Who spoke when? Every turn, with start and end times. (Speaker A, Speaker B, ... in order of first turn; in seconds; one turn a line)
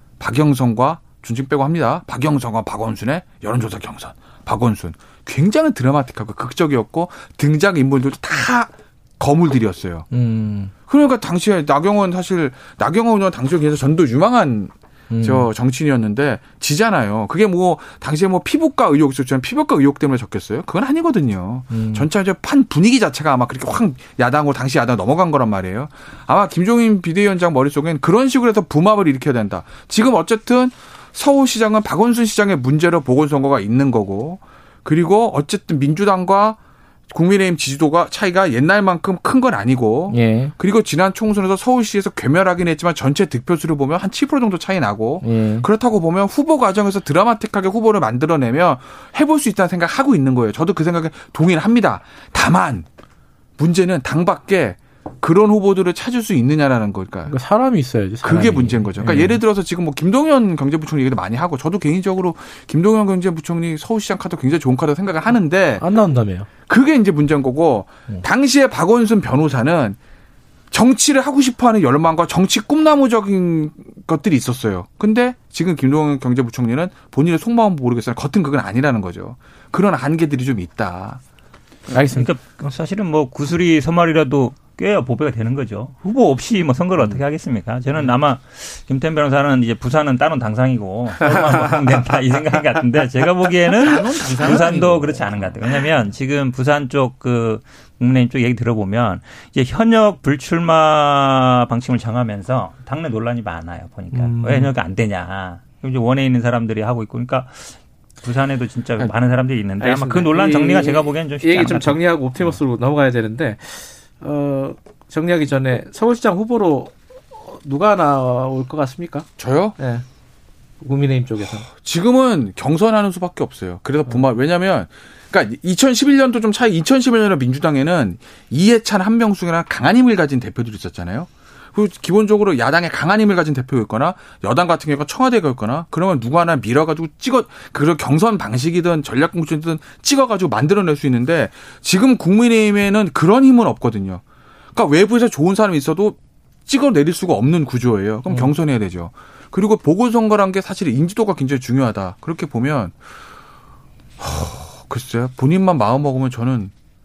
Speaker A: 0.2-10.1
Speaker B: 10.1-10.7
Speaker A: 10.9-36.6
Speaker B: 15.1-15.5
Speaker B: 21.7-22.1
Speaker A: 37.1-52.9
Speaker B: 40.1-40.5
Speaker B: 45.2-45.7
Speaker A: 53.6-57.4
Speaker B: 57.2-59.4
Speaker A: 58.2-65.8
Speaker B: 65.8-66.5
Speaker A: 66.7-70.0
Speaker A: 70.7-81.2
Speaker B: 81.9-82.3
Speaker C: 81.9-112.0
Speaker A: 93.8-95.5
Speaker B: 94.3-94.8
Speaker B: 104.1-104.7
Speaker B: 109.8-119.3
Speaker A: 119.4-119.8
Speaker B: 119.8-120.0
Speaker B: 120.8-121.7
Speaker A: 121.7-144.2
Speaker A: 144.7-153.0
Speaker B: 148.3-148.5
Speaker A: 154.2-156.7